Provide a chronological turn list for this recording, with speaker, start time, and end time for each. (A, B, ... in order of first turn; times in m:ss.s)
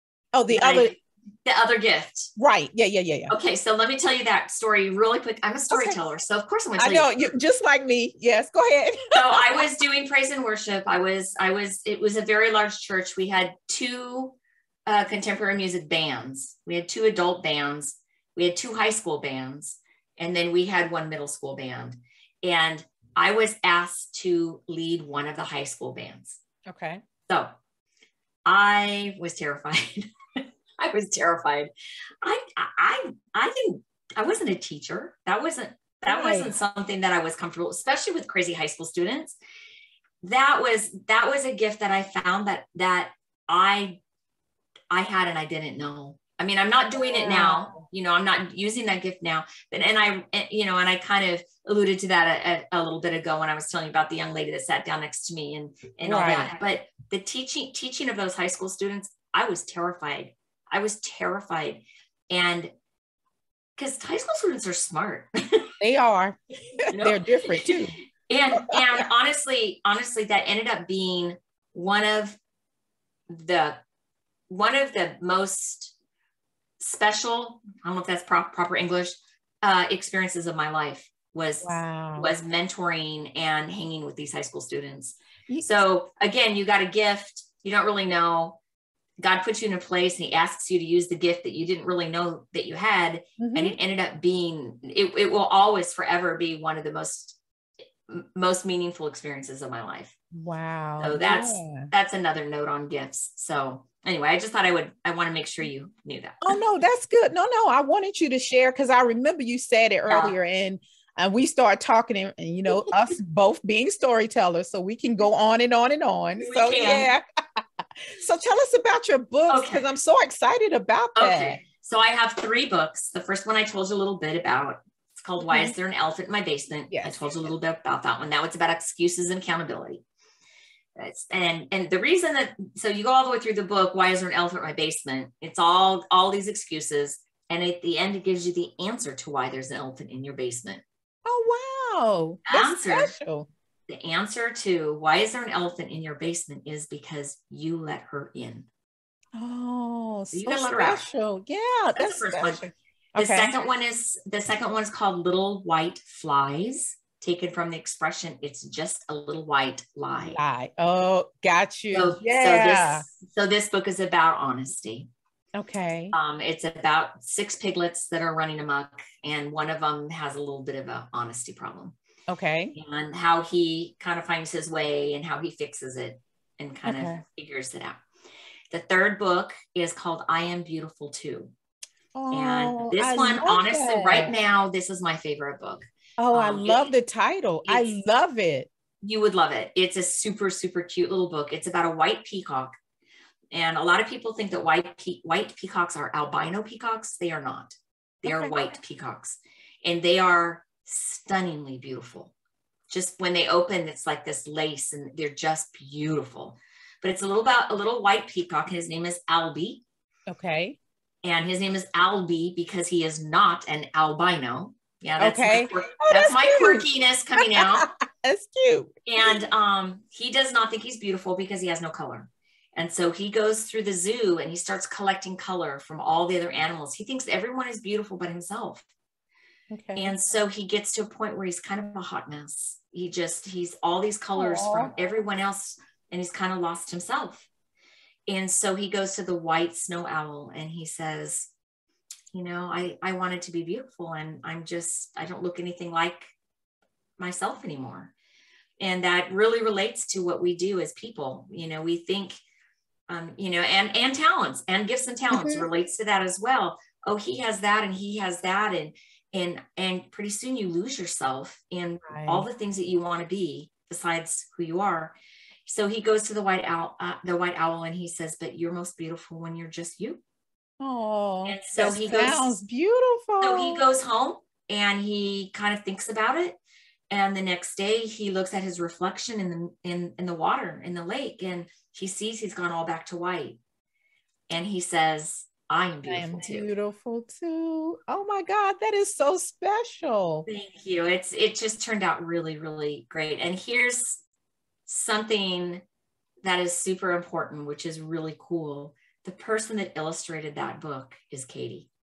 0:00.3-0:00.9 A
0:00.5-0:02.3 B
0:02.4-0:03.3 A
0:03.3-0:07.3 B
0:05.7-0:06.0 A
0:06.8-0:09.6 A
0:09.1-0:26.4 B
0:26.6-0:27.0 A
0:28.4-0:30.1 B
0:30.8-0:31.7 B
0:32.2-0:39.4 B
0:36.1-0:36.5 A
0:40.2-0:44.0 B
0:44.9-1:02.7 B
0:47.0-0:47.8 A
0:56.0-0:56.5 A
1:03.8-1:05.7 B
1:05.8-1:08.0 A
1:06.9-1:12.4 B
1:13.3-1:13.8 B
1:14.5-1:15.9 B
1:16.8-1:28.6 B
1:21.6-1:22.3 A
1:29.2-1:37.4 B
1:33.4-1:33.8 A
1:38.1-1:40.1 B
1:40.3-1:41.9 A
1:41.0-1:46.6 B
1:46.4-1:57.2 A
1:50.1-1:50.3 B
1:56.4-1:57.1 B
1:58.2-2:01.6 A
1:59.5-1:59.8 B
2:01.2-2:10.0 B
2:05.4-2:05.7 A
2:06.9-2:07.5 A
2:11.0-2:20.8 B
2:21.2-2:23.5 A
2:22.5-2:23.1 B
2:23.9-2:28.7 B
2:29.4-2:33.5 A
2:30.3-2:31.0 B
2:32.0-2:40.4 B
2:40.2-2:43.0 A
2:41.9-2:45.1 B
2:45.6-2:46.2 A
2:46.1-2:51.9 B
2:52.3-2:52.8 A
2:52.7-2:58.0 B
2:56.8-2:57.2 A
2:58.7-3:01.5 B
3:02.2-3:04.3 A
3:02.3-3:06.9 B
3:06.2-3:08.7 A
3:07.7-3:07.9 B
3:09.0-3:12.7 B
3:13.5-3:22.3 B
3:18.2-3:18.6 A
3:22.9-3:29.8 B
3:30.3-3:30.8 A
3:31.2-3:37.9 B
3:35.2-3:36.8 A
3:37.4-3:39.4 A
3:39.0-3:48.8 B
3:49.7-3:50.1 A
3:50.0-3:57.5 B
3:54.3-3:54.9 A
3:58.3-4:01.5 B
4:02.3-4:06.3 B
4:07.2-4:08.1 B
4:08.8-4:12.4 B
4:13.1-4:30.2 B
4:15.3-4:15.6 A
4:22.1-4:22.5 A
4:30.8-4:33.8 A
4:31.4-4:32.6 B
4:33.4-4:36.6 B
4:37.1-4:43.6 B
4:44.5-4:46.7 B
4:46.0-4:50.5 A
4:50.5-4:54.2 B
4:54.9-4:55.8 B
4:56.4-5:01.9 B